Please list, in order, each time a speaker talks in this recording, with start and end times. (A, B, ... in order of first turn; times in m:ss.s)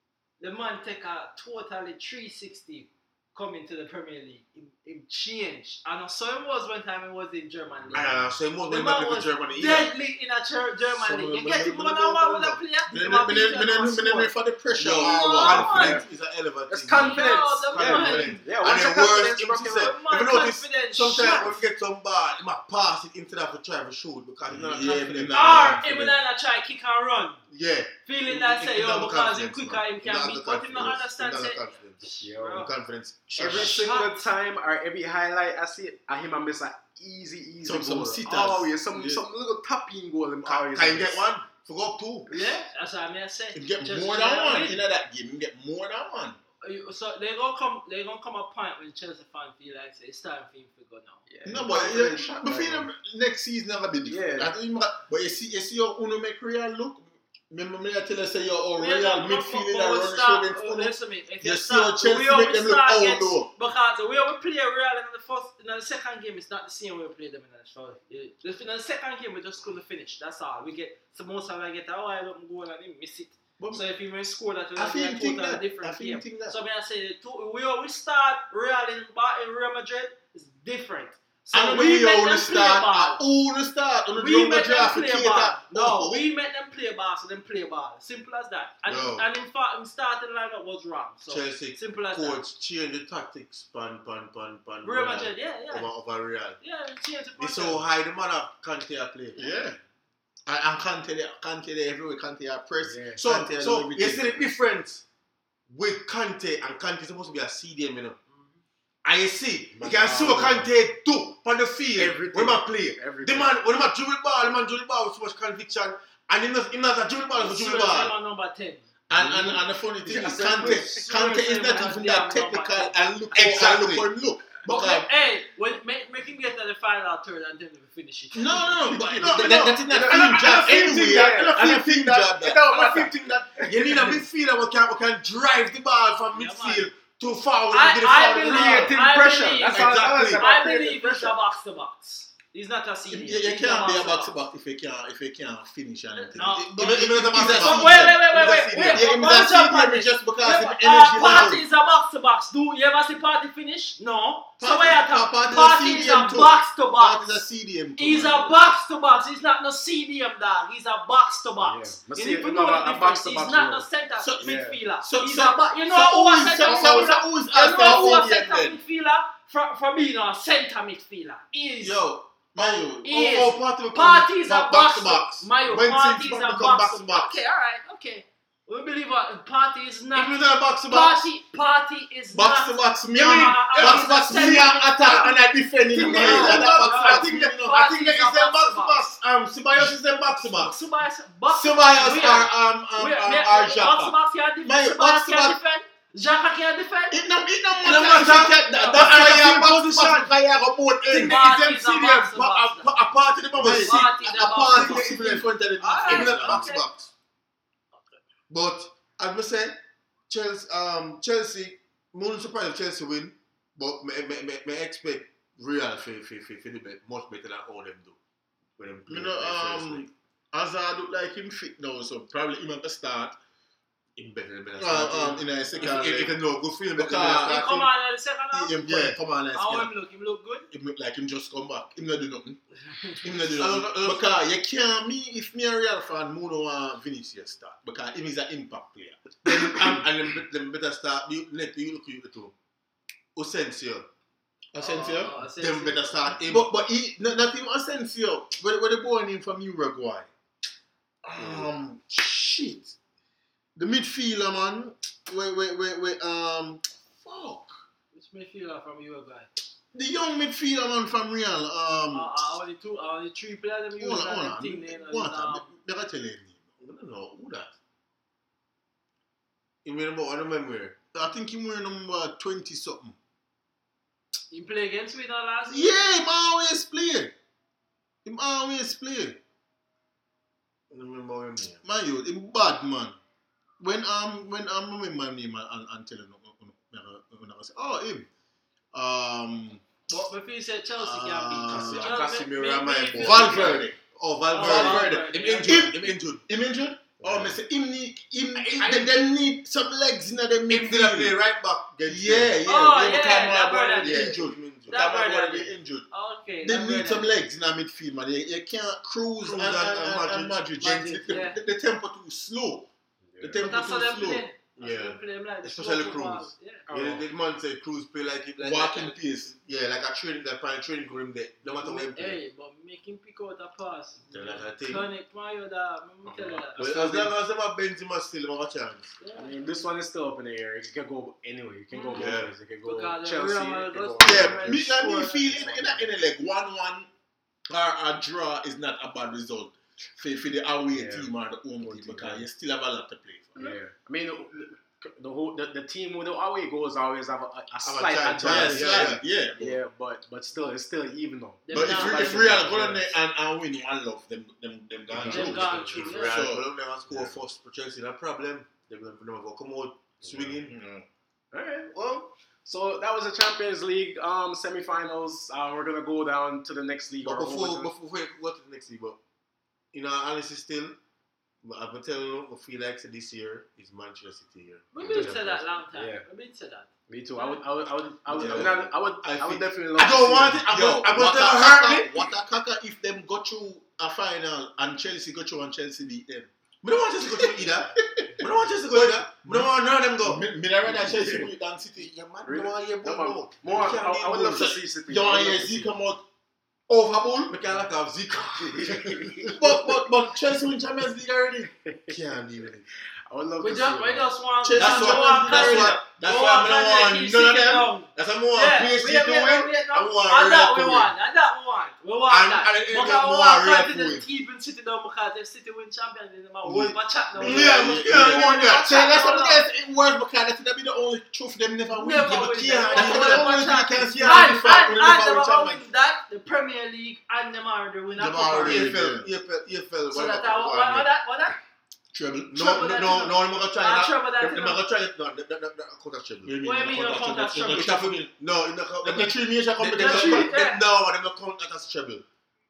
0:00.4-0:08.1 A
0:07.9-0:09.9 B
0:08.7-0:16.0 A
0:10.9-0:12.6 B
0:12.9-0:16.0 C
0:14.8-0:26.1 B
0:15.7-0:16.0 D
0:16.7-0:19.1 D
0:16.9-0:21.6 A
0:18.6-0:19.4 C
0:24.5-0:25.9 C
0:25.0-0:25.8 D
0:25.3-0:27.4 A
0:27.5-0:33.8 B
0:28.1-0:32.7 A
0:32.2-0:32.7 D
0:33.4-0:41.3 D
0:33.4-0:33.9 C
0:33.7-0:34.2 A
0:37.6-0:38.8 C
0:39.0-0:39.2 B
0:40.4-0:42.3 B
0:42.3-0:44.8 A
0:43.6-0:46.4 C
0:46.6-0:51.2 A
0:51.3-0:52.9 D
0:51.4-1:03.5 C
0:54.1-0:54.5 D
0:58.8-1:23.2 A
1:14.8-1:16.6 C
1:21.5-1:26.2 C
1:24.2-1:32.4 A
1:28.9-1:29.3 B
1:31.3-1:36.6 B
1:34.8-1:35.9 A
1:36.6-1:37.8 A
1:37.4-1:39.8 B
1:39.4-1:39.7 C
1:40.5-1:44.5 C
1:42.8-1:43.2 D
1:43.2-1:45.0 B
1:45.7-1:48.2 B
1:49.0-1:58.1 B
1:49.7-1:50.7 D
1:52.0-1:53.6 D
1:57.3-1:58.8 A
1:59.1-2:05.1 C
1:59.1-1:59.6 B
2:00.1-2:03.0 A
2:00.1-2:01.1 D
2:00.2-2:00.9 B
2:03.3-2:04.1 B
2:04.6-2:09.0 A
2:04.7-2:05.0 B
2:08.3-2:12.6 C
2:08.9-2:11.6 D
2:09.1-2:19.0 B
2:12.4-2:14.2 D
2:13.8-2:14.2 C
2:16.3-2:16.9 A
2:17.7-2:24.3 A
2:18.4-2:21.4 D
2:19.7-2:20.4 B
2:19.7-2:20.2 C
2:23.1-2:31.6 C
2:26.2-2:37.4 A
2:26.4-2:28.0 B
2:34.6-2:38.5 C
2:38.0-2:52.0 A
2:41.6-2:43.9 D
2:44.2-2:48.8 C
2:44.4-2:44.8 D
2:46.6-2:48.2 B
2:51.8-2:53.4 C
2:52.6-3:05.4 A
2:52.6-2:57.4 B
2:54.0-2:55.4 C
3:00.2-3:01.2 B
3:02.3-3:07.9 C
3:03.2-3:04.4 B
3:05.9-3:09.0 A
3:05.9-3:09.0 B
3:08.9-3:10.7 C
3:10.4-3:17.2 A
3:11.5-3:15.6 C
3:17.1-3:21.5 C
3:17.8-3:20.4 B
3:18.4-3:19.2 A
3:21.1-3:27.0 B
3:21.1-3:23.0 A
3:23.3-3:26.8 C
3:23.6-3:25.2 A
3:25.8-3:26.9 A
3:28.5-3:29.8 B
3:30.3-3:38.2 B
3:38.8-3:40.1 B
3:39.1-3:43.3 C
3:44.2-3:47.9 B
3:44.8-3:46.4 C
3:47.0-3:47.8 C
3:47.4-3:48.8 A
3:48.5-3:49.9 C
3:48.7-3:49.2 B
3:49.5-3:50.7 A
3:50.7-3:52.6 C
3:53.2-4:00.4 C
3:53.3-3:54.3 B
3:59.5-4:02.5 B
4:03.4-4:04.1 B
4:04.7-4:05.3 C
4:04.8-4:06.4 A
4:05.6-4:06.7 B
4:06.4-4:10.2 C
4:11.2-4:13.0 C
4:11.4-4:11.7 B
4:13.8-4:17.7 C
4:18.1-4:19.5 A
4:19.9-4:22.3 C
4:22.1-4:25.7 A
4:24.0-4:26.8 C
4:26.8-4:27.7 B
4:29.8-4:31.1 B
4:31.2-4:33.1 C
4:34.5-4:36.1 A
4:35.8-4:37.2 C
4:38.3-4:39.4 B
4:40.9-4:41.8 B
4:41.8-4:43.2 C
4:43.8-4:48.1 C
4:48.9-4:49.8 C
4:50.1-4:53.8 A
4:51.0-4:56.4 B
4:51.5-4:52.2 C
4:53.1-4:54.0 C
4:54.5-4:55.9 A
4:54.5-5:01.3 C
4:57.2-4:57.6 D
4:58.6-4:59.3 B
5:00.7-5:02.6 B
5:02.1-5:06.0 C
5:02.6-5:04.4 A
5:04.0-5:05.6 B
5:04.9-5:07.4 A
5:06.6-5:12.9 C
5:09.4-5:11.2 B
5:10.8-5:11.6 A
5:13.3-5:13.6 D
5:13.4-5:14.5 C
5:13.6-5:16.8 A
5:14.8-5:22.4 B
5:16.9-5:17.2 D
5:18.6-5:19.5 C
5:21.8-5:27.2 A
5:24.3-5:25.1 B
5:26.2-5:26.7 D
5:26.8-5:29.1 B
5:29.2-5:29.6 A
5:29.4-5:34.8 D
5:31.9-5:32.3 A
5:32.1-5:32.5 B
5:32.8-5:35.5 A
5:34.2-5:37.1 C
5:35.5-5:36.1 D
5:37.7-5:43.8 C
5:40.9-5:42.5 D
5:43.6-5:53.1 D
5:47.8-5:49.2 B
5:48.4-5:49.8 C
5:51.7-5:52.6 A
5:51.7-5:56.6 C
5:51.8-5:52.6 B
5:55.1-6:00.8 B
5:55.2-5:56.1 D
5:55.2-5:56.5 A
6:00.2-6:00.6 D
6:00.7-6:01.0 C
6:01.5-6:07.9 D
6:07.2-6:09.2 B
6:09.9-6:11.0 B
6:11.6-6:15.6 B
6:14.9-6:17.6 A
6:15.0-6:15.4 D
6:15.9-6:16.2 D
6:17.1-6:20.6 D
6:18.3-6:19.6 B
6:18.3-6:25.4 C
6:20.3-6:22.4 B
6:25.5-6:30.5 B
6:27.2-6:32.1 C
6:30.9-6:31.5 D
6:32.0-6:34.7 B
6:32.4-6:36.0 D
6:33.7-6:36.2 C
6:36.9-6:37.6 C
6:37.5-6:39.8 B
6:38.7-6:39.5 D
6:39.5-6:41.7 C
6:41.9-6:42.2 D
6:42.1-6:42.9 B
6:43.3-6:44.3 D
6:43.6-6:59.6 A
6:44.6-6:47.9 C
6:44.7-6:46.0 B
6:48.2-6:51.1 B
6:52.3-6:54.2 B
6:56.6-6:58.8 B
6:57.4-7:05.4 C
7:01.9-7:09.0 A
7:02.8-7:05.8 B
7:08.2-7:11.1 B
7:08.5-7:09.3 C
7:10.1-7:11.6 A
7:12.1-7:12.7 C
7:12.5-7:16.6 B
7:12.6-7:14.8 A
7:16.4-7:18.2 C
7:16.6-7:18.2 A
7:17.7-7:22.2 B
7:19.0-7:20.6 C
7:20.0-7:20.8 A